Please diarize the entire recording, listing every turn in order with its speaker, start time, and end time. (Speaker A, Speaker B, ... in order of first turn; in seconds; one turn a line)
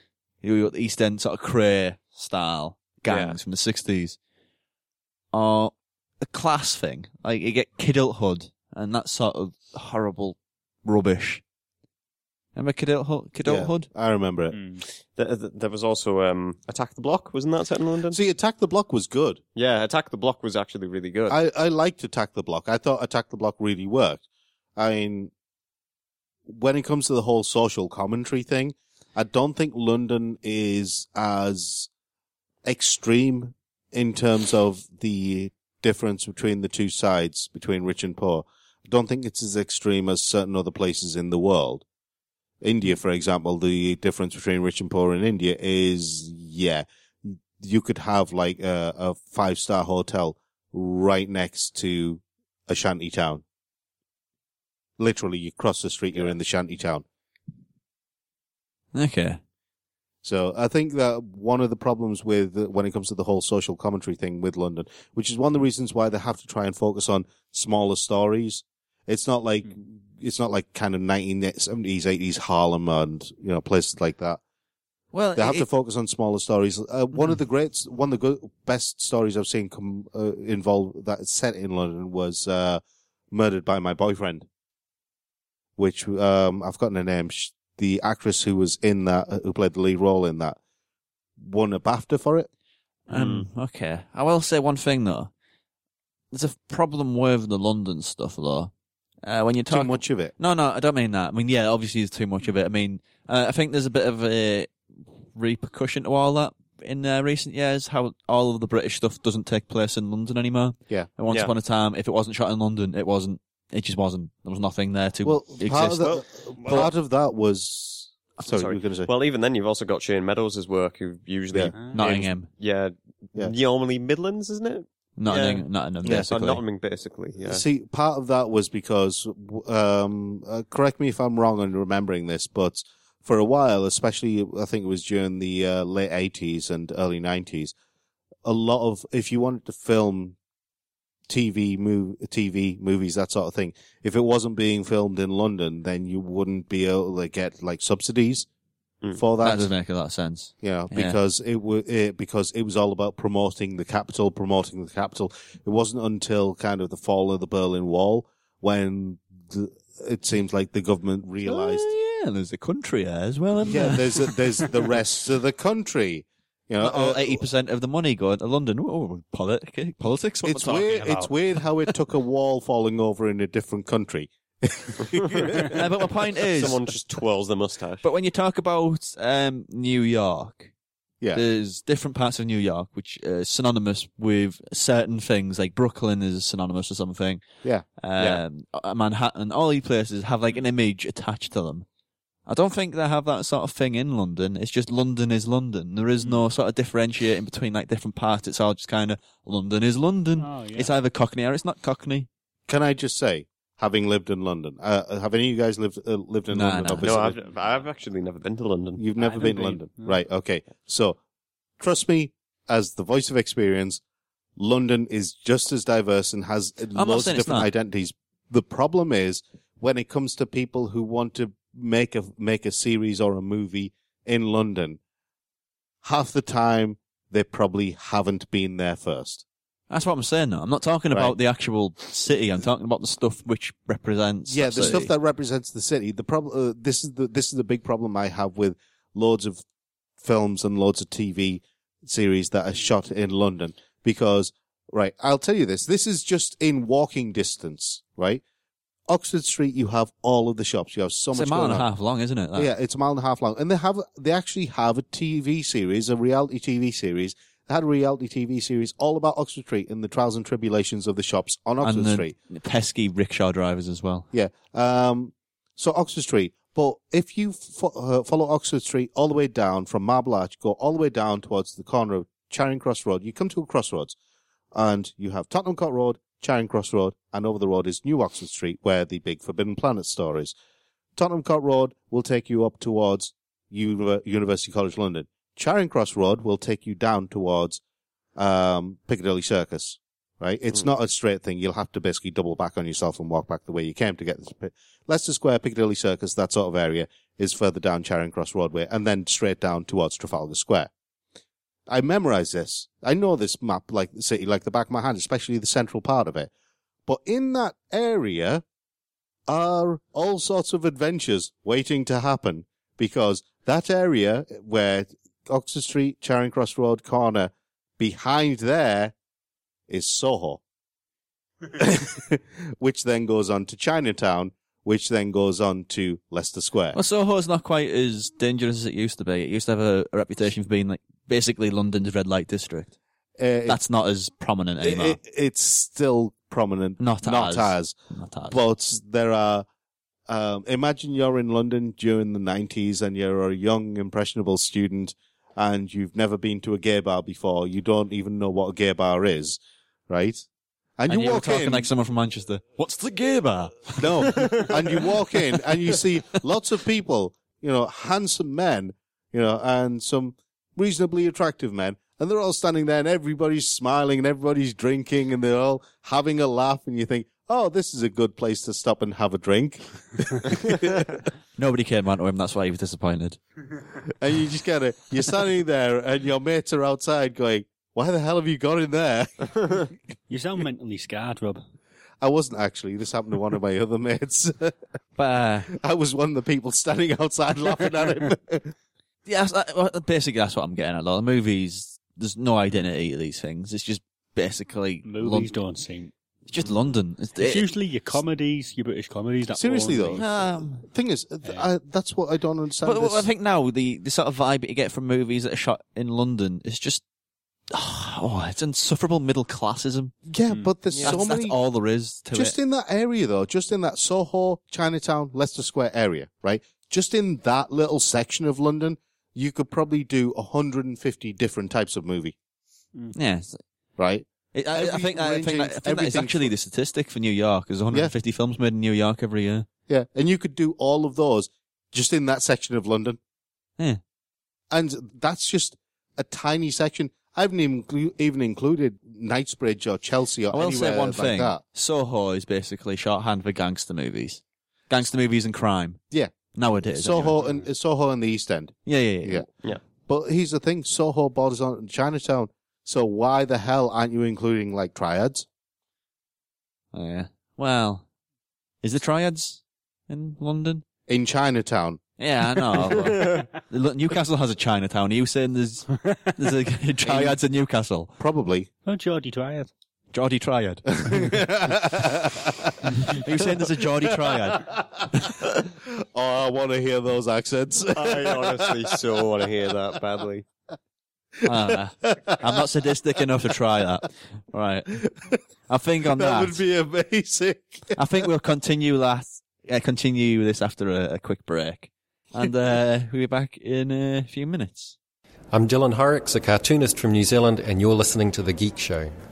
Speaker A: 0.4-4.2
Speaker B: 3.0-3.4
Speaker A: 5.3-11.4
Speaker A: 12.6-13.9
Speaker C: 13.4-14.6
Speaker D: 14.5-14.8
Speaker B: 15.1-18.2
Speaker C: 18.1-19.4
Speaker B: 19.6-21.4
Speaker C: 21.3-24.2
Speaker C: 24.8-25.3
Speaker C: 26.5-31.9
Speaker C: 32.6-41.8
Speaker C: 42.6-53.4
Speaker C: 55.0-57.0
Speaker A: 58.9-59.4
Speaker C: 60.2-74.4
Speaker A: 75.1-75.7
Speaker C: 75.3-84.5
Speaker C: 85.8-90.6
Speaker C: 91.4-92.5
Speaker A: 93.1-95.3
Speaker B: 93.1-93.5
Speaker A: 96.3-98.7
Speaker A: 99.2-104.7
Speaker C: 99.7-100.3
Speaker A: 105.3-116.0
Speaker C: 115.2-119.1
Speaker B: 116.0-116.9
Speaker B: 118.4-125.7
Speaker A: 121.9-122.5
Speaker A: 125.2-126.6
Speaker B: 126.3-127.6
Speaker C: 127.4-137.7
Speaker C: 138.4-140.3
Speaker C: 141.3-148.5
Speaker C: 149.1-149.7
Speaker A: 149.4-151.2
Speaker C: 150.6-161.9
Speaker A: 161.4-164.9
Speaker C: 163.6-167.5
Speaker A: 166.8-171.3
Speaker C: 170.4-175.8
Speaker B: 175.4-175.8
Speaker A: 175.7-176.8
Speaker B: 176.4-178.0
Speaker A: 178.0-180.7
Speaker A: 181.3-187.4
Speaker A: 188.0-191.8
Speaker A: 192.5-202.3
Speaker D: 200.4-200.9
Speaker C: 202.7-207.4
Speaker A: 206.5-207.1
Speaker B: 207.0-209.0
Speaker C: 209.0-211.2
Speaker D: 209.2-210.2
Speaker C: 211.8-214.0
Speaker C: 214.6-225.0
Speaker A: 216.9-217.7
Speaker C: 226.0-229.4
Speaker A: 229.9-235.1
Speaker C: 234.5-239.6
Speaker C: 240.2-248.4
Speaker C: 249.1-251.9
Speaker A: 251.3-252.7
Speaker C: 252.5-262.3
Speaker A: 261.8-264.3
Speaker C: 264.3-274.1
Speaker C: 274.7-280.5
Speaker C: 281.1-287.8
Speaker C: 288.4-300.9
Speaker C: 301.9-306.5
Speaker C: 307.1-308.6
Speaker C: 309.5-319.1
Speaker C: 319.9-320.6
Speaker C: 321.7-327.0
Speaker A: 326.9-332.9
Speaker C: 333.4-333.8
Speaker A: 333.7-335.2
Speaker C: 334.8-337.9
Speaker A: 337.0-338.6
Speaker C: 338.5-339.6
Speaker C: 340.3-350.4
Speaker C: 351.0-351.9
Speaker A: 351.1-354.4
Speaker C: 354.0-371.3
Speaker A: 371.6-373.4
Speaker C: 374.1-379.9
Speaker D: 380.3-381.6
Speaker C: 382.2-384.8
Speaker A: 385.2-385.7
Speaker C: 385.7-388.7
Speaker A: 389.3-395.5
Speaker D: 395.0-396.1
Speaker A: 396.5-398.2
Speaker D: 397.4-400.2
Speaker C: 399.5-403.3
Speaker A: 400.1-400.9
Speaker A: 402.8-407.0
Speaker A: 407.7-410.1
Speaker C: 410.3-411.6
Speaker A: 411.0-412.5
Speaker C: 412.3-422.3
Speaker A: 423.1-423.6
Speaker C: 424.0-426.5
Speaker A: 424.5-429.6
Speaker C: 429.9-433.2
Speaker C: 434.7-441.6
Speaker A: 440.5-446.0
Speaker A: 446.5-447.4
Speaker C: 446.9-449.5
Speaker D: 447.3-447.6
Speaker A: 448.9-449.4
Speaker C: 450.1-455.4
Speaker A: 456.9-458.0
Speaker A: 458.8-460.8
Speaker C: 461.1-462.0
Speaker A: 462.2-468.1
Speaker C: 467.0-467.4
Speaker C: 468.2-468.7
Speaker D: 468.9-469.7
Speaker A: 470.1-470.9
Speaker C: 470.9-479.2
Speaker A: 473.0-475.3
Speaker B: 477.9-480.4
Speaker C: 481.4-482.6
Speaker A: 481.4-485.0
Speaker C: 484.9-485.4
Speaker A: 485.7-486.6
Speaker C: 486.1-488.2
Speaker A: 488.0-494.9
Speaker E: 495.5-499.1